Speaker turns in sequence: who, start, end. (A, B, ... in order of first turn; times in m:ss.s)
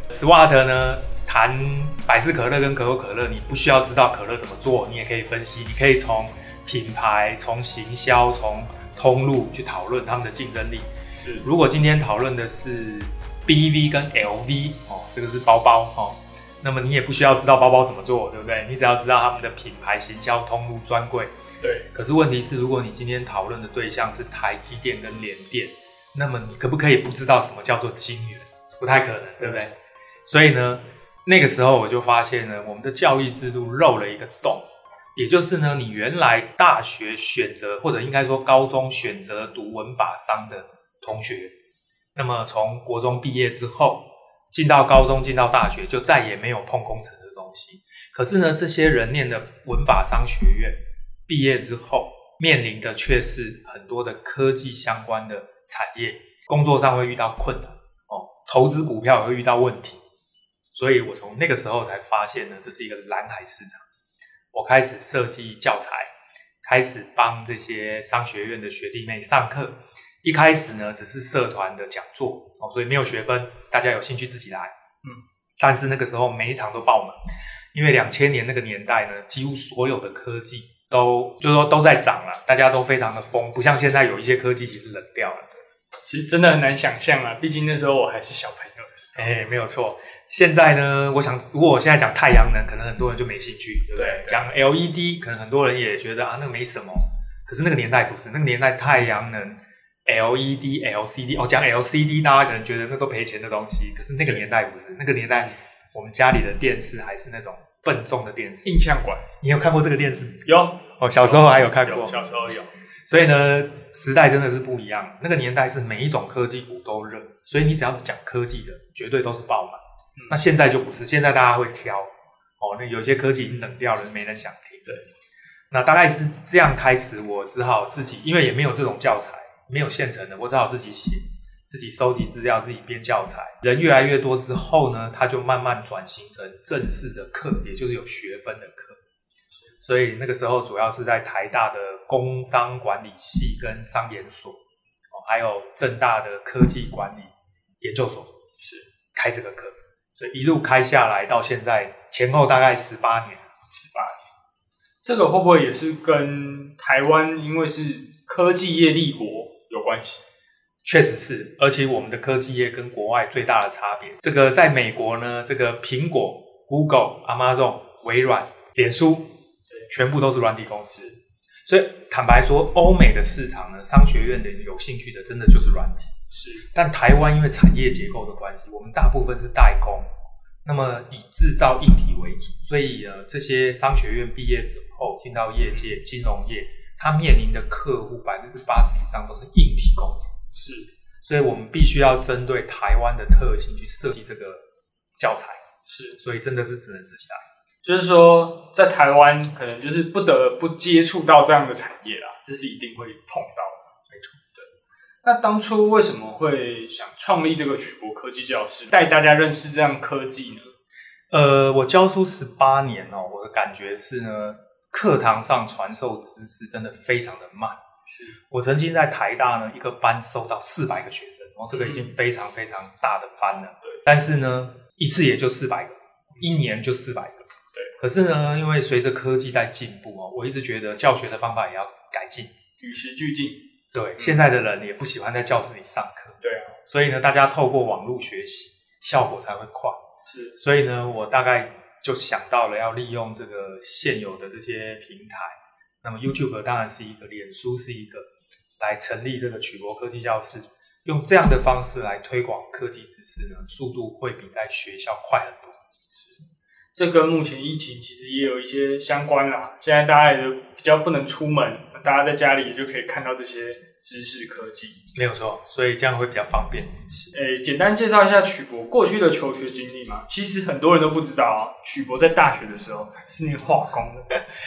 0:00.1-0:10.9 A
0:11.2-0:11.5 B
0:11.4-0:21.3 A
0:21.6-0:21.9 B
0:21.9-0:29.7 A
0:30.2-0:34.6 A
0:35.2-0:41.5 A
0:42.1-0:50.8 A
0:51.3-1:00.0 A
1:00.7-1:03.8 A
1:04.5-1:06.1 A
1:06.6-1:14.7 A
1:15.6-1:17.2 A
1:17.7-1:25.5 A
1:26.0-1:29.3 B
1:29.2-1:48.8 A
1:33.9-1:34.4 B
1:48.6-1:49.2 B
1:49.4-1:50.4 A
1:50.4-1:52.7 B
1:51.0-1:52.2 A
1:53.1-2:04.9 A
2:05.7-2:19.0 A
2:19.8-2:24.6 A
2:25.1-2:28.3 A
2:28.6-2:28.9 B
2:29.1-2:33.4 A
2:33.7-2:34.3 B
2:35.0-2:40.2 B
2:40.8-2:49.3 A
2:49.9-2:51.1 A
2:51.6-2:56.1 A
2:56.3-2:56.7 B
2:56.7-3:00.1 A
3:00.6-3:10.4 A
3:10.5-3:10.9 B
3:11.2-3:14.6 A
3:15.2-3:15.6 A
3:15.8-3:16.2 B
3:16.2-3:17.4 A
3:17.8-3:23.9 B
3:24.1-3:24.4 A
3:25.2-3:30.7 B
3:31.3-3:37.8 A
3:38.0-3:38.4 B
3:38.5-3:52.5 A
3:41.7-3:42.1 B
3:52.8-3:53.6 B
3:53.9-4:00.0 A
3:56.4-3:56.8 B
4:00.3-4:00.6 B
4:00.6-4:08.2 A
4:08.8-4:15.8 A
4:16.1-4:16.4 B
4:16.9-4:25.0 B
4:25.1-4:26.9 A
4:27.1-4:34.3 B